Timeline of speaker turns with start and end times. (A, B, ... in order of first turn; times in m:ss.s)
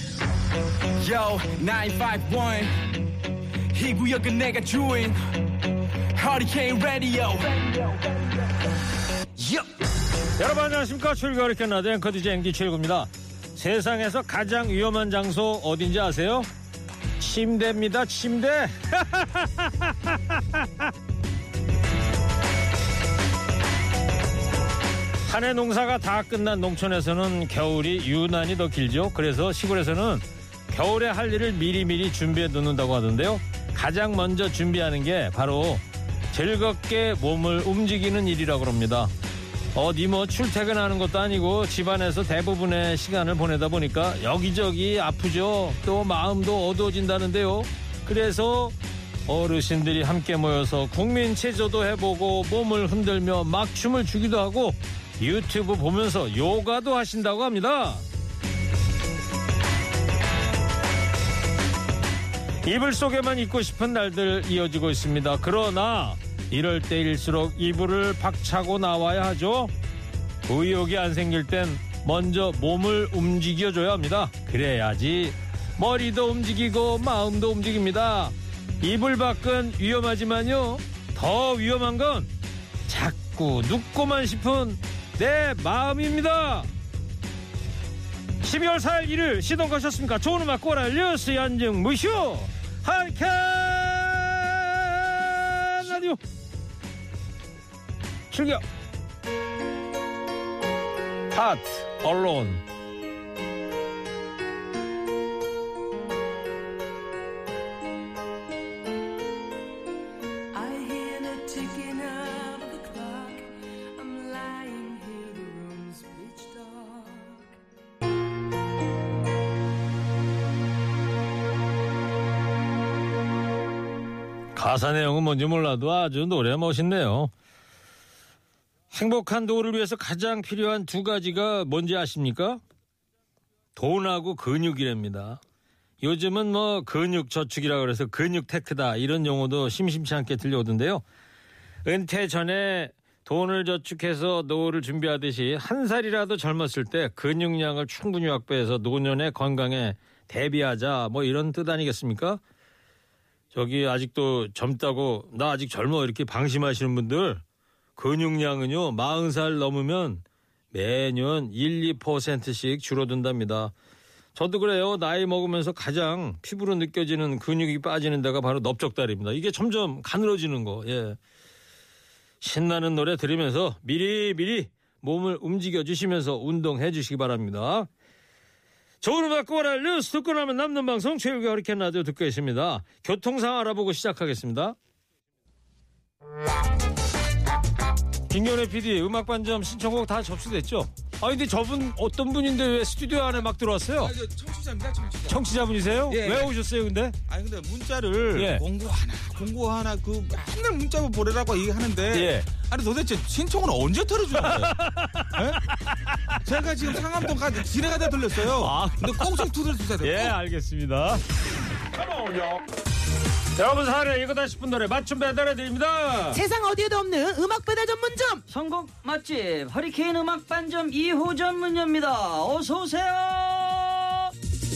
0:01.0-0:03.0 A
0:03.7-0:05.5 A
0:06.1-0:08.7 A
0:09.4-0:09.8 A
0:10.4-0:16.5 B
0:17.2-0:20.9 B
0:25.3-0:39.1 B
0:39.8-0:48.8 B
0:49.3-0:58.0 B
1:02.6-1:09.7 B
1:10.4-1:22.3 B
1:22.9-1:26.7 B
1:28.4-1:36.2 B
1:38.3-1:38.6 B
1:41.3-1:42.6 B
1:50.5-1:57.5 C
2:04.5-2:07.3 B
2:08.9-2:12.6 B
2:13.8-2:15.4 B
2:16.0-2:21.0 B
2:21.8-2:32.4 B
2:33.5-2:37.4 B
2:38.0-2:43.7 B
2:44.4-2:51.2 B
2:52.4-2:57.9 B
2:59.0-3:04.8 B
3:08.3-3:14.1 B
3:14.0-3:16.5 D
3:15.3-3:17.2 B
3:17.3-3:24.7 D
3:18.3-3:18.6 B
3:22.1-3:22.5 B
3:24.4-3:27.3 B
3:25.4-3:25.6 D
3:26.4-3:30.4 D
3:28.4-3:31.2 B
3:32.0-3:32.6 B
3:33.5-3:36.4 B
3:36.3-3:38.4 E
3:38.5-3:44.3 F